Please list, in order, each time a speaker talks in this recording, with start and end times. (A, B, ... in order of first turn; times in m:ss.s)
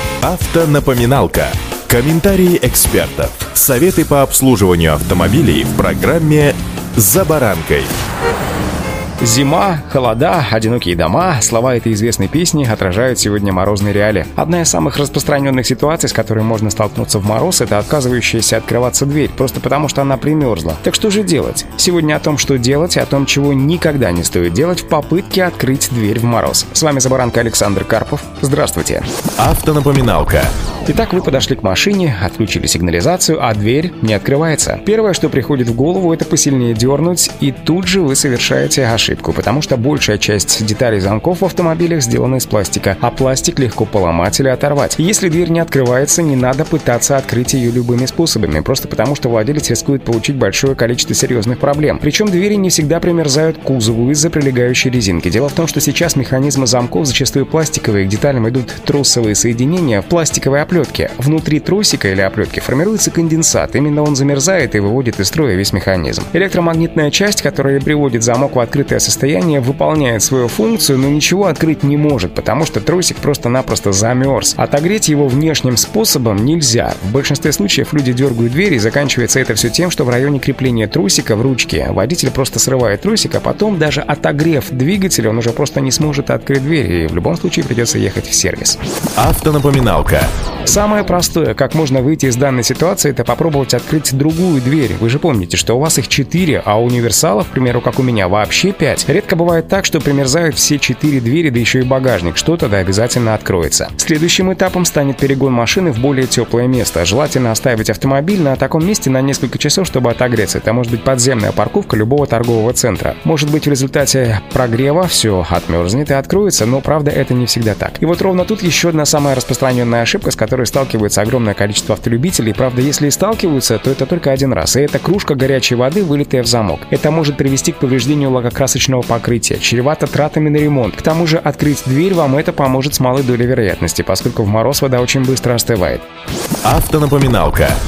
0:00.2-0:07.9 A
0:09.2-0:29.1 B
0:29.4-0:30.5 A
0:30.9-1:28.8 B
1:29.2-1:30.3 A
1:30.6-2:16.0 B
2:16.6-2:17.8 A